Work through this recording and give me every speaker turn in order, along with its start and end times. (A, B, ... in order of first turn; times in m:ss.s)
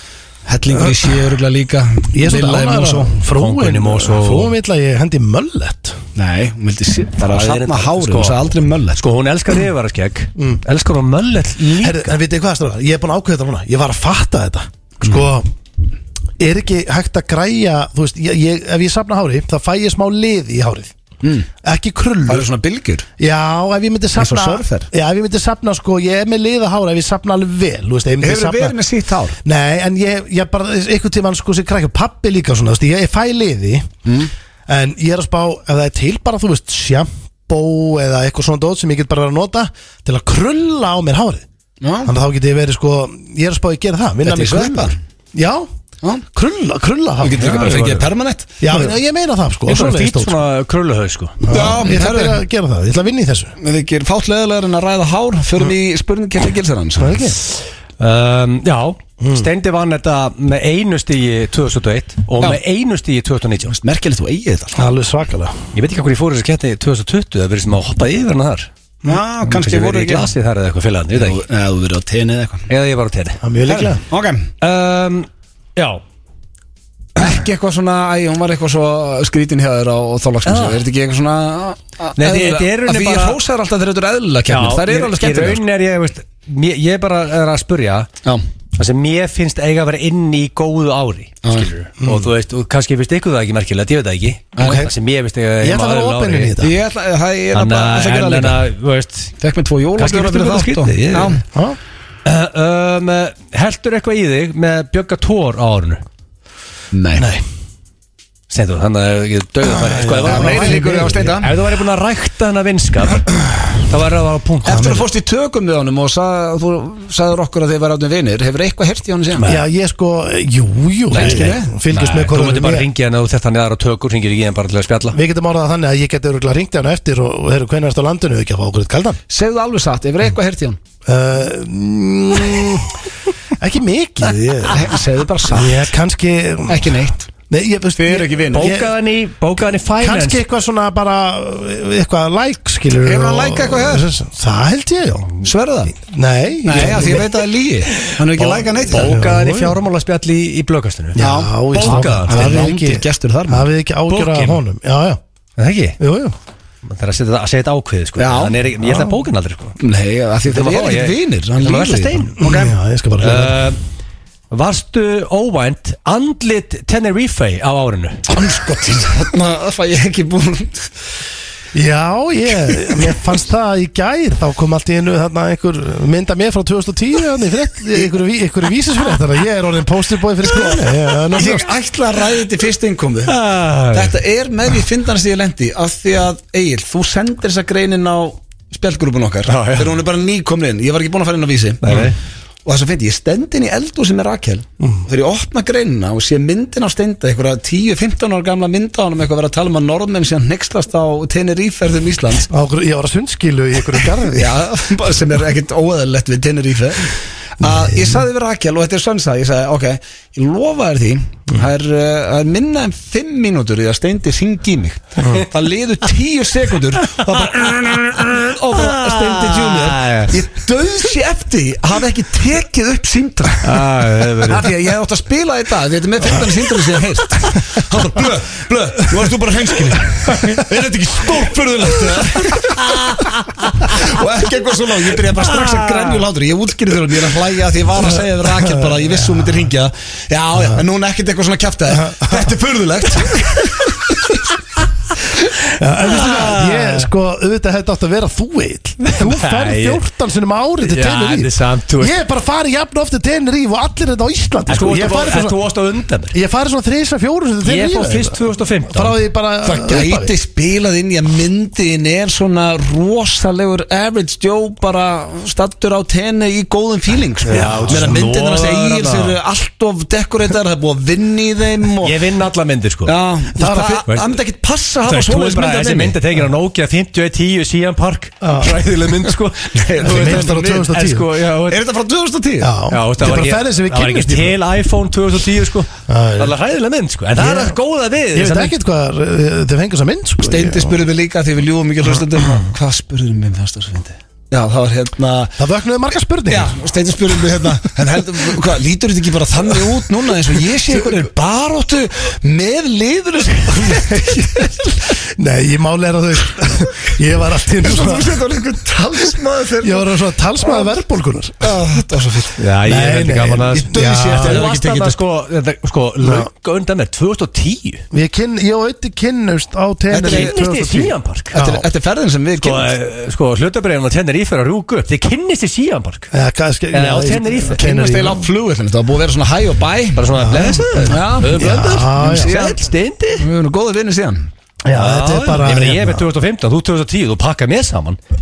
0:00.4-0:03.1 A
0:02.1-0:06.0 B
0:03.3-0:04.5 C
0:06.2-0:09.0 A
0:07.2-0:12.2 C
0:11.8-0:15.5 B
0:16.4-0:21.0 B
0:21.6-0:22.5 B
0:22.3-0:23.1 A
0:23.2-0:28.8 B
0:24.2-0:24.9 A
0:28.2-0:29.4 A
0:29.4-0:33.9 B
0:34.0-0:34.3 A
0:34.7-0:41.4 B
0:41.8-0:42.1 A
0:42.0-0:45.7 B
0:44.2-0:45.0 A
0:46.3-0:47.6 B
0:47.2-0:48.9 A
0:47.4-0:48.1 C
0:48.6-0:50.3 B
0:49.7-0:51.5 C
0:51.4-0:53.5 B
0:51.5-0:52.4 A
0:53.6-0:57.3 A
0:57.0-0:57.4 B
0:58.0-1:03.7 C
0:59.2-0:59.5 B
1:03.7-1:04.8 A
1:04.8-1:05.6 B
1:05.7-1:08.7 C
1:09.0-1:10.3 A
1:09.5-1:11.4 C
1:11.1-1:12.7 A
1:12.7-1:13.4 C
1:13.4-1:14.0 B
1:13.7-1:14.5 A
1:14.6-1:16.0 C
1:17.2-1:25.6 A
1:20.4-1:20.8 C
1:22.2-1:23.4 C
1:24.5-1:28.1 C
1:28.7-1:36.5 C
1:32.0-1:32.3 B
1:34.6-1:34.9 A
1:34.6-1:34.9 B
1:35.6-1:36.8 B
1:36.6-1:38.6 A
1:37.5-1:39.3 C
1:39.4-1:41.4 A
1:40.0-1:41.4 C
1:42.2-1:46.0 C
1:46.9-1:47.3 A
1:47.2-1:47.4 B
1:48.5-1:53.3 C
1:49.6-1:51.4 B
1:50.2-1:51.5 A
1:53.8-1:55.0 C
1:54.6-1:59.4 A
1:54.7-1:55.0 B
1:59.4-1:59.6 C
1:59.4-2:02.9 B
2:01.1-2:05.2 C
2:01.1-2:01.8 A
2:05.1-2:09.2 B
2:09.3-2:10.8 A
2:11.0-2:13.0 B
2:13.6-2:14.9 B
2:14.6-2:15.9 A
2:15.5-2:18.9 B
2:16.7-2:17.3 A
2:18.0-2:18.7 A
2:18.5-2:20.4 C
2:19.7-2:25.3 B
2:23.0-2:24.1 A
2:25.4-2:25.9 A
2:25.9-2:27.3 B
2:26.6-2:29.2 A
2:28.0-2:32.6 C
2:28.9-2:29.8 B
2:31.1-2:35.2 B
2:31.2-2:33.7 A
2:34.1-2:34.6 C
2:35.6-2:36.0 C
2:36.0-2:36.3 B
2:36.8-2:39.8 C
2:38.2-2:38.6 A
2:38.8-2:39.1 B
2:39.8-2:42.7 A
2:40.5-2:42.5 C
2:42.4-2:43.6 B
2:43.2-2:43.8 C
2:44.5-2:48.2 C
2:48.3-2:50.9 A
2:51.7-3:01.7 B
3:00.5-3:03.4 A
3:03.2-3:04.1 C
3:03.9-3:12.1 A
3:09.5-3:10.0 C
3:11.8-3:12.2 C
3:12.6-3:22.5 A
3:14.8-3:15.0 B
3:22.5-3:24.6 B
3:24.3-3:43.8 A
3:37.2-3:40.4 C
3:43.6-3:44.7 C
3:44.5-3:53.2 A
3:52.6-3:54.0 C
3:53.8-4:04.3 A
3:55.5-3:56.2 C
3:58.6-3:59.5 B
4:01.9-4:02.5 B
4:05.6-4:15.6 B
4:06.0-4:07.1 C
4:09.0-4:10.0 C
4:10.8-4:12.2 C
4:14.7-4:16.3 C
4:16.3-4:20.3 B
4:17.6-4:19.2 C
4:19.6-4:32.3 A
4:27.4-4:28.2 B
4:27.5-4:29.4 C
4:32.0-4:33.1 C
4:33.0-4:36.2 A
4:33.6-4:34.0 B
4:34.0-4:34.4 C
4:35.0-4:41.8 C
4:38.4-4:38.7 B
4:39.7-4:40.9 A
4:40.0-4:41.2 B
4:41.7-4:42.7 A
4:42.6-4:44.6 B
4:42.9-4:48.7 C
4:46.1-4:46.5 B
4:47.4-4:47.8 B
4:48.3-4:51.0 B
4:50.4-4:55.6 A
4:55.6-4:56.8 B
4:56.5-5:04.9 A
5:00.9-5:01.1 B
5:03.9-5:08.4 B
5:07.8-5:11.0 A
5:09.8-5:11.8 B
5:11.6-5:12.6 A
5:12.6-5:18.0 C
5:12.8-5:14.7 B
5:13.7-5:15.2 A
5:16.2-5:16.5 B
5:18.1-5:21.8 B
5:20.1-5:20.5 A
5:20.2-5:21.5 C
5:21.5-5:22.9 A
5:22.6-5:26.3 C
5:26.3-5:28.5 B
5:26.9-5:27.8 C
5:27.8-5:30.3 A
5:30.1-5:33.4 C
5:30.4-5:32.5 B
5:31.0-5:32.8 A
5:33.4-5:34.5 A
5:34.8-5:36.2 B
5:34.9-5:38.2 C